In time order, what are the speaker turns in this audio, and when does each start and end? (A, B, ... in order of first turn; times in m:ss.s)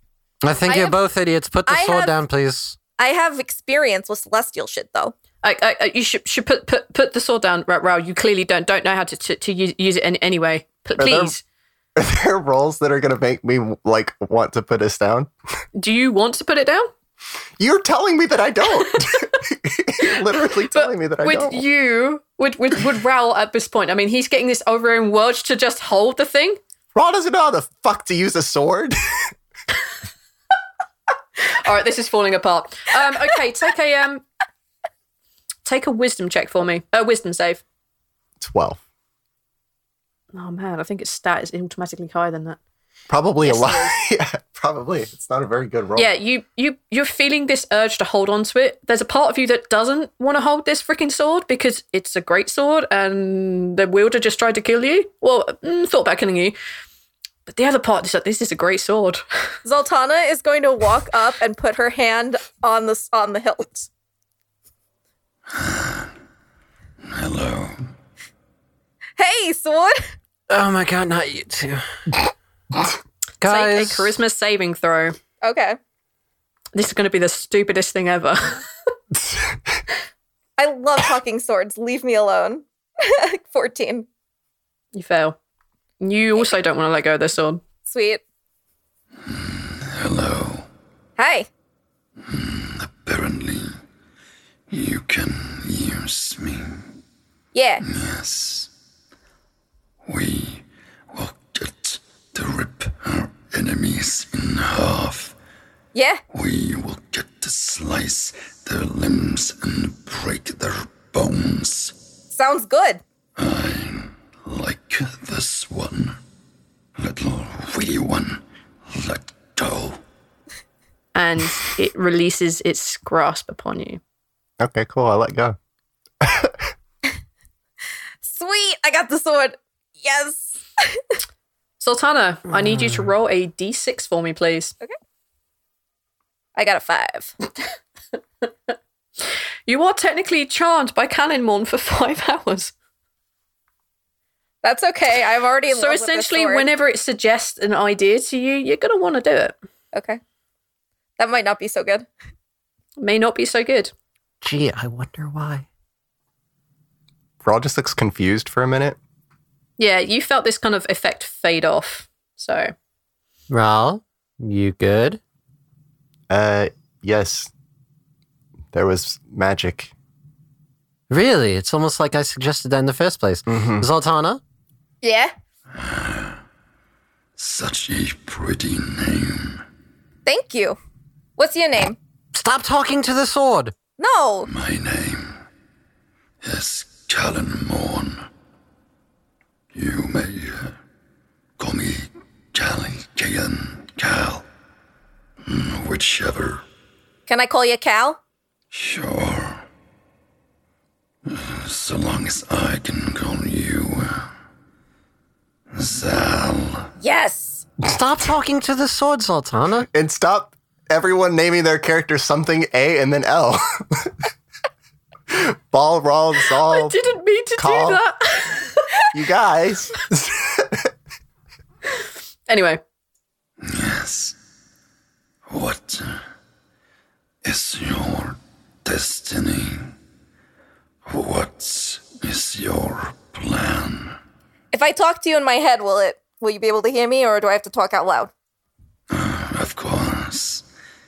0:00.4-0:02.8 A
0:00.6-0:01.0 B
0:01.7-0:02.2 B
0:03.0-0:05.2 B
0:05.4-0:11.4 C
0:11.0-0:11.3 D
0:12.0-0:15.3 D
0:15.8-0:16.9 C
0:17.6-0:21.6 D
0:20.7-0:26.6 C
0:27.0-0:29.0 D
0:31.5-0:34.2 C
0:35.6-0:37.6 C
0:38.4-0:38.8 D
0:40.3-0:42.6 C
0:43.1-0:46.1 D
0:43.4-0:43.9 C
0:46.0-0:56.6 C
0:57.5-0:59.2 C
0:59.6-1:03.9 B
1:05.5-1:06.1 E
1:07.0-1:07.8 E
1:09.2-1:10.0 B
1:10.5-1:11.9 A
1:13.4-1:14.2 A
1:13.4-1:15.2 C
1:15.4-1:15.8 B
1:16.8-1:18.6 C
1:20.6-1:24.1 B
1:25.0-1:25.4 C
1:26.0-1:27.6 C
1:27.9-1:28.2 B
1:29.3-1:30.7 E
1:31.2-1:31.5 B
1:32.2-1:33.8 E
1:34.7-1:37.0 E
1:37.5-1:37.8 B
1:37.8-1:38.7 E
1:40.1-1:45.4 E
1:45.9-1:46.2 B
1:46.3-1:52.0 E
1:52.3-1:53.0 B
1:53.4-1:56.2 E
1:57.0-2:00.0 E
2:01.2-2:04.0 C
2:04.6-2:05.6 D
2:06.2-2:06.6 D
2:08.2-2:11.0 B
2:11.8-2:14.7 C
2:16.6-2:17.3 B
2:19.7-2:22.7 C
2:24.6-2:26.7 B
2:25.7-2:29.6 C
2:29.9-2:30.2 B
2:31.2-2:32.1 B
2:33.0-2:33.9 C
2:34.4-2:35.7 A
2:37.4-2:39.0 D
2:39.8-2:42.7 C
2:43.5-2:45.2 A
2:46.3-2:47.5 D
2:48.7-2:49.9 D
2:51.1-2:54.4 A
2:53.5-2:53.8 D
2:55.0-2:55.3 B
2:55.8-2:56.4 E
2:57.4-2:59.6 E
3:00.3-3:00.8 B
3:01.4-3:02.0 B
3:02.3-3:03.7 A
3:04.0-3:04.5 B
3:04.5-3:05.4 E
3:06.4-3:08.3 E
3:09.7-3:10.8 E
3:11.6-3:14.5 E
3:15.4-3:16.6 E
3:17.3-3:18.2 B
3:18.7-3:19.6 E
3:21.3-3:24.3 E
3:25.7-3:26.9 E
3:27.0-3:27.6 B
3:27.9-3:29.9 A
3:29.9-3:34.1 D
3:35.3-3:37.0 D
3:36.7-3:38.8 C
3:37.6-3:38.0 D
3:39.1-3:40.9 D
3:42.5-3:42.8 C
3:43.6-3:44.4 E
3:45.5-3:46.2 E
3:47.4-3:50.0 E
3:51.1-3:54.2 E
3:54.7-3:58.3 B
3:59.1-4:00.6 E